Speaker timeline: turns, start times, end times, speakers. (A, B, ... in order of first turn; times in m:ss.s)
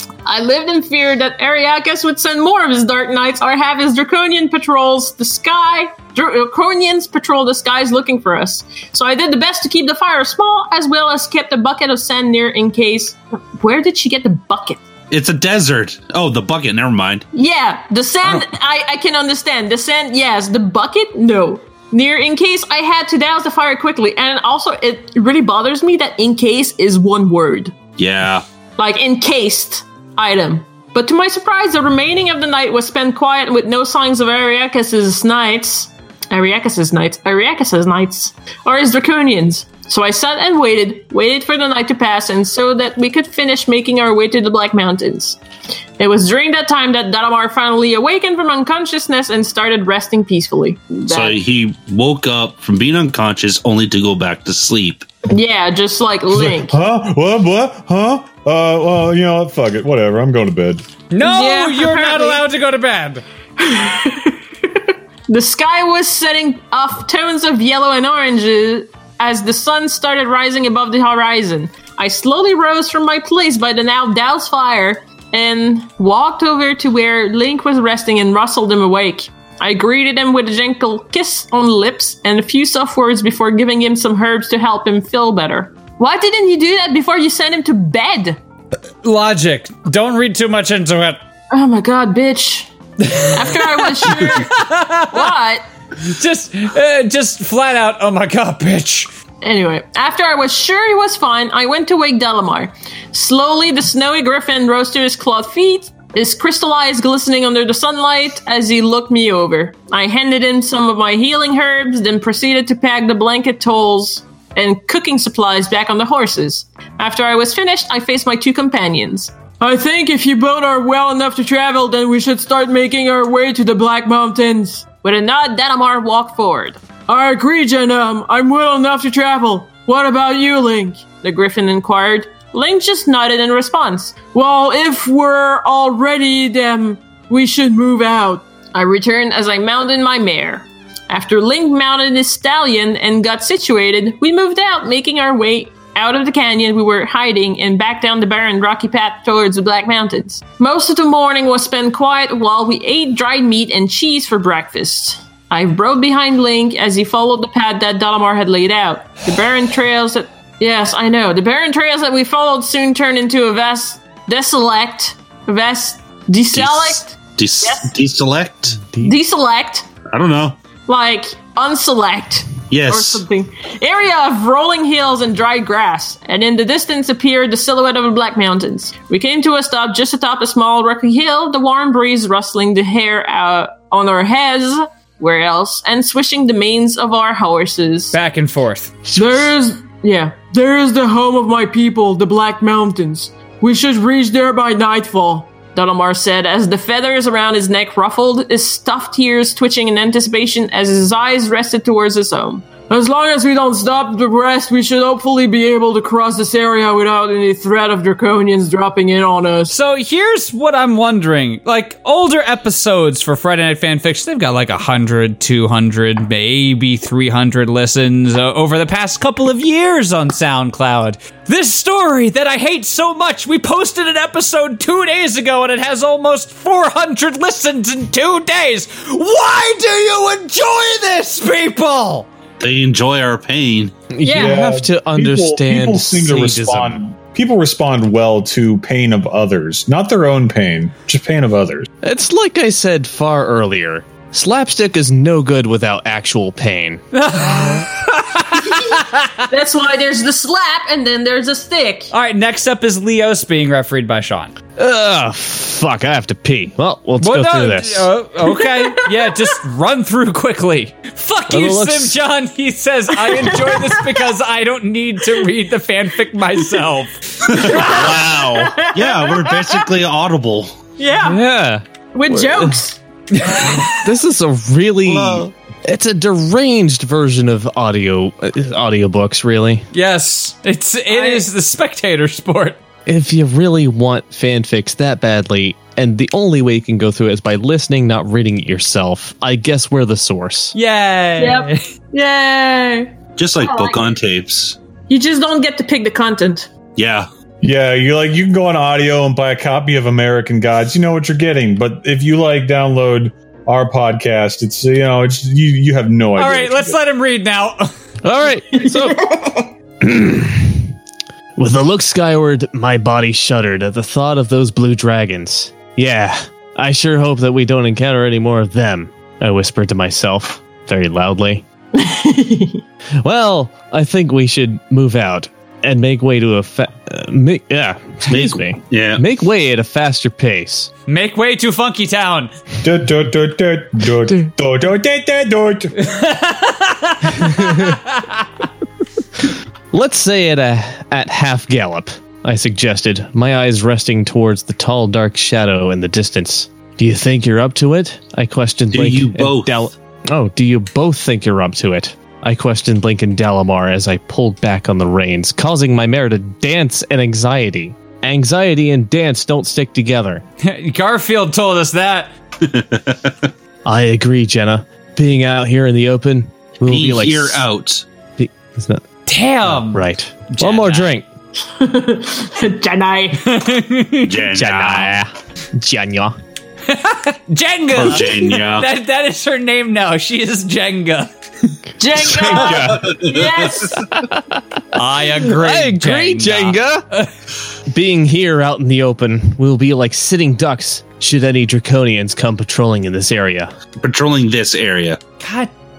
0:00.2-0:14.8 A
0:15.1-0:17.3 B
0:17.3-0:27.8 A
0:28.0-0:28.4 B
0:28.8-0:45.4 A
0:46.0-0:51.4 A
0:51.1-0:55.1 B
0:55.3-0:56.8 A
0:56.3-1:00.8 C
1:01.1-1:03.2 D
1:01.2-1:02.4 A
1:03.6-1:28.4 A
1:29.0-1:31.2 D
1:31.5-1:34.6 A
1:33.0-1:35.3 D
1:35.1-1:35.6 A
1:36.0-1:39.1 D
1:39.4-2:47.9 A
2:46.5-2:48.8 B
2:48.8-2:49.2 E
2:49.0-2:49.9 A
2:50.1-2:50.6 B
2:50.9-3:08.2 A
2:52.7-2:53.2 B
3:08.1-3:09.1 D
3:09.1-3:09.5 E
3:09.2-3:29.7 A
3:29.7-3:52.3 D
3:52.6-3:54.0 B
3:54.1-3:57.0 E
3:54.2-3:54.6 A
3:54.3-4:01.9 C
4:02.0-4:07.0 E
4:07.1-4:09.4 D
4:09.5-4:12.1 A
4:12.1-4:14.6 D
4:14.8-4:18.1 E
4:17.2-4:27.2 D
4:21.5-4:22.2 E
4:23.3-4:24.0 A
4:27.4-4:30.7 B
4:27.5-4:29.8 A
4:31.0-4:31.4 A
4:31.2-4:32.8 E
4:32.1-4:33.0 A
4:33.4-4:33.8 D
4:33.8-4:39.9 E
4:35.1-4:35.5 B
4:39.9-4:42.8 D
4:41.1-4:41.5 A
4:43.1-4:50.7 E
4:50.7-4:51.8 D
4:51.4-4:54.1 A
4:53.4-4:54.8 B
4:55.1-4:56.7 A
4:57.0-4:57.3 B
4:57.6-5:07.0 C
5:06.4-5:07.9 D
5:08.2-5:09.4 E
5:08.8-5:09.6 A
5:10.0-5:10.9 E
5:11.6-5:21.6 E
5:22.0-5:22.8 A
5:23.2-5:30.9 E
5:28.3-5:29.2 B
5:31.1-5:32.5 D
5:32.8-5:35.9 C
5:36.0-5:38.3 D
5:37.4-5:38.0 E
5:39.9-6:00.4 E
5:48.9-5:49.9 B
6:00.6-6:02.3 D
6:02.6-6:03.5 B
6:03.8-6:07.6 E
6:06.8-6:08.1 B
6:08.4-6:09.0 E
6:09.3-6:11.2 D
6:09.6-6:11.3 E
6:11.7-6:13.5 A
6:13.4-6:15.1 D
6:14.2-6:15.1 B
6:14.5-6:16.4 E
6:16.9-6:21.3 D
6:17.9-6:18.9 B
6:22.0-6:24.0 A
6:22.2-6:23.1 E
6:22.5-6:23.9 B
6:24.1-6:24.6 E
6:24.9-6:27.3 D
6:25.4-6:27.0 E
6:27.9-6:33.7 E
6:34.0-6:35.2 B
6:35.4-6:35.7 D